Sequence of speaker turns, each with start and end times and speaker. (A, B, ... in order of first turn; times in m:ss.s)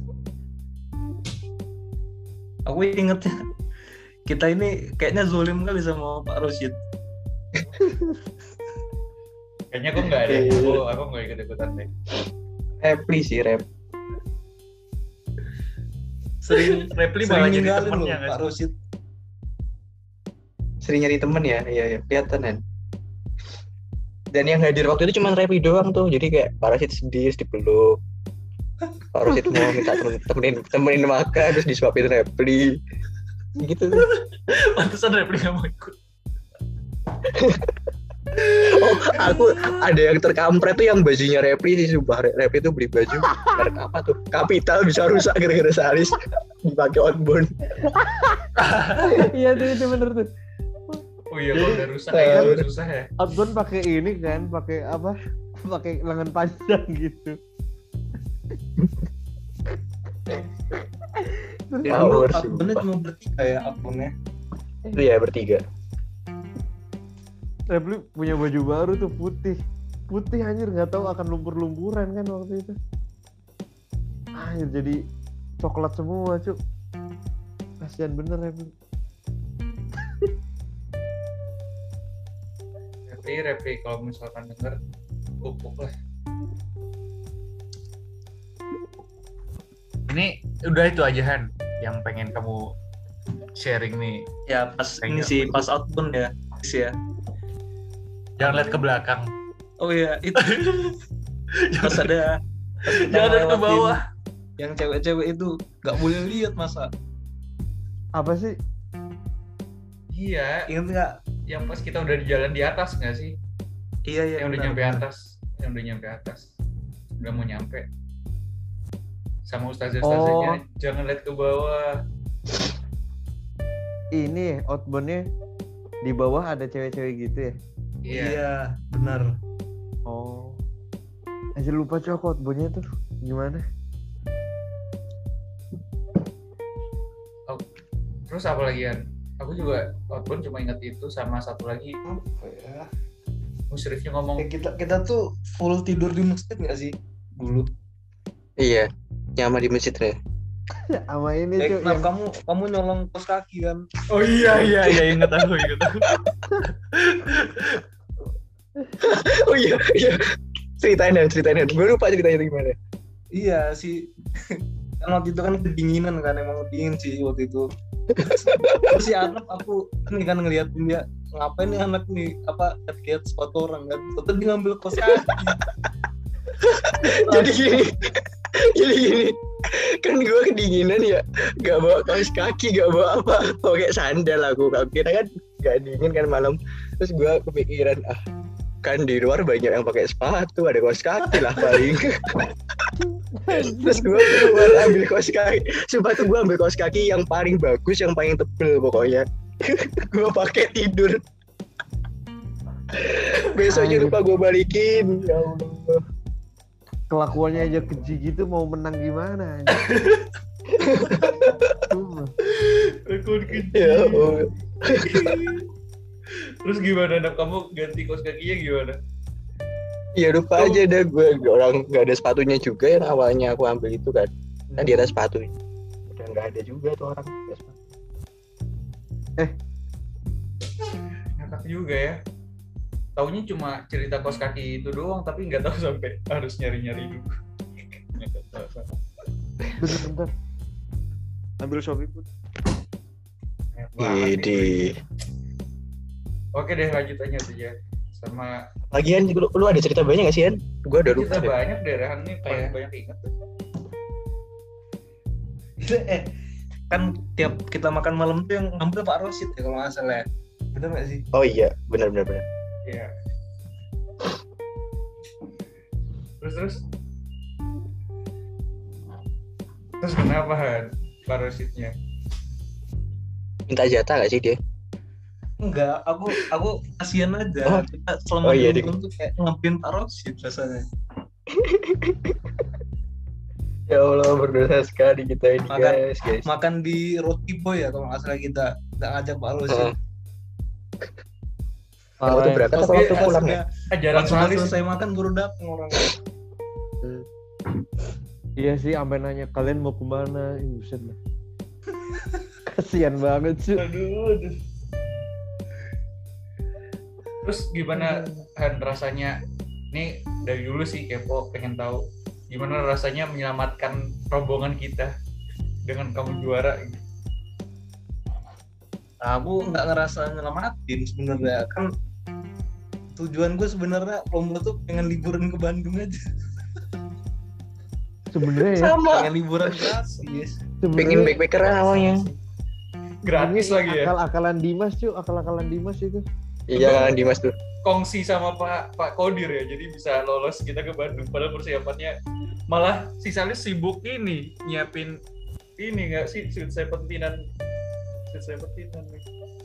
0:02.7-0:03.4 A
0:04.3-0:06.8 A
0:07.8-0:08.2 B
0:09.7-0:11.9 C
0:10.2-0:10.8 D
0:12.8-0:13.6 D
0:16.4-0:18.7 A
0:16.5-0:18.5 C
0:20.8-0:22.6 D
0:24.3-0:28.0 D
0:29.1-0:32.8 D
0:33.6-0:34.1 D
0:34.0-0:36.0 C
0:37.3-0:37.8 D
0:38.4-0:39.4 C
0:38.6-0:47.7 D
0:43.3-0:43.6 B
0:47.9-0:48.5 B
0:48.6-0:49.3 C
0:49.0-0:50.3 B
0:51.3-0:53.1 C
0:51.5-0:52.6 B
0:51.6-0:52.6 D
0:53.2-0:57.4 B
1:01.2-1:02.1 B
1:01.9-1:04.1 A
1:01.9-1:02.9 D
1:04.9-1:05.6 D
1:07.7-1:09.6 B
1:10.1-1:12.8 B
1:14.4-1:15.0 B
1:15.6-1:16.6 B
1:17.8-1:18.7 B
1:23.1-1:24.8 C
1:25.4-1:25.9 C
1:30.1-1:32.7 C
1:33.6-1:34.3 C
1:34.5-1:37.0 A
1:35.0-1:35.6 C
1:38.4-1:39.3 C
1:38.4-1:38.8 A
1:39.8-1:40.8 A
1:40.4-1:41.0 C
1:41.6-1:42.2 C
1:41.8-1:44.0 A
1:42.9-1:44.0 C
1:44.6-1:46.9 A
1:48.2-1:48.6 B
1:50.1-1:50.7 C
1:50.7-1:51.2 A
1:51.5-1:53.3 C
1:54.1-1:55.1 A
1:54.4-1:56.4 C
1:57.2-1:57.9 C
1:59.5-2:02.0 C
2:00.0-2:00.6 B
2:04.2-2:05.3 B
2:06.0-2:07.6 B
2:08.1-2:08.4 C
2:08.1-2:09.4 A
2:10.1-2:10.6 B
2:11.6-2:13.6 B
2:18.3-2:22.0 C
2:22.0-2:22.9 A
2:23.7-2:24.5 C
2:24.4-2:27.7 A
2:28.6-2:30.2 D
2:30.8-2:32.1 B
2:31.6-2:33.8 A
2:34.1-2:37.8 C
2:39.0-2:40.2 D
2:40.8-2:42.8 D
2:43.4-2:47.7 A
2:48.2-2:49.0 D
2:48.4-2:55.6 A
2:55.1-2:55.6 D
2:56.6-3:08.2 D
3:08.8-3:12.5 D
3:13.0-3:14.9 B
3:13.5-3:21.2 D
3:22.9-3:26.0 D
3:23.7-3:24.2 B
3:27.1-3:29.8 B
3:29.7-3:30.3 C
3:30.7-3:31.7 D
3:31.9-3:32.3 B
3:32.4-3:35.7 C
3:33.6-3:35.6 D
3:36.3-3:39.0 C
3:40.2-3:45.5 D
3:44.7-3:45.1 C
3:46.1-3:47.8 D
3:51.4-3:52.2 C
3:53.2-3:57.4 C
3:58.0-3:58.9 C
3:59.8-4:00.3 B
4:01.6-4:02.3 B
4:03.8-4:04.9 C
4:04.0-4:05.0 D
4:06.6-4:08.6 C
4:08.9-4:11.6 D
4:11.0-4:13.3 C
4:12.5-4:12.7 D
4:15.8-4:16.3 A
4:16.9-4:21.2 A
4:21.3-4:22.4 D
4:22.9-4:23.1 C
4:26.4-4:26.8 C
4:30.0-4:31.9 C
4:33.7-4:34.6 D
4:35.6-4:40.9 A
4:38.4-4:38.9 D
4:41.5-4:42.6 D
4:43.9-4:46.5 D
4:45.7-4:49.9 A
4:49.7-4:49.9 D
4:52.2-4:52.7 B
4:52.2-4:53.6 D
4:52.7-4:56.2 A
4:52.8-4:53.3 C
4:53.9-4:54.8 C
4:58.6-5:01.2 B
5:02.7-5:03.8 B
5:03.8-5:04.6 C
5:07.4-5:09.4 C
5:08.0-5:08.4 B
5:09.9-5:15.1 C
5:15.9-5:17.0 C
5:19.2-5:21.9 A
5:23.2-5:26.2 A
5:28.3-5:29.0 B
5:28.7-5:29.9 D
5:29.0-5:30.6 A
5:30.8-5:31.4 B
5:31.0-5:32.3 D
5:31.4-5:32.3 C
5:33.2-5:34.1 C
5:33.4-5:36.2 B
5:36.7-5:37.6 D
5:36.8-5:37.1 C
5:37.8-5:42.2 C
5:42.7-5:45.2 C
5:45.8-5:47.4 C
5:48.3-5:49.2 C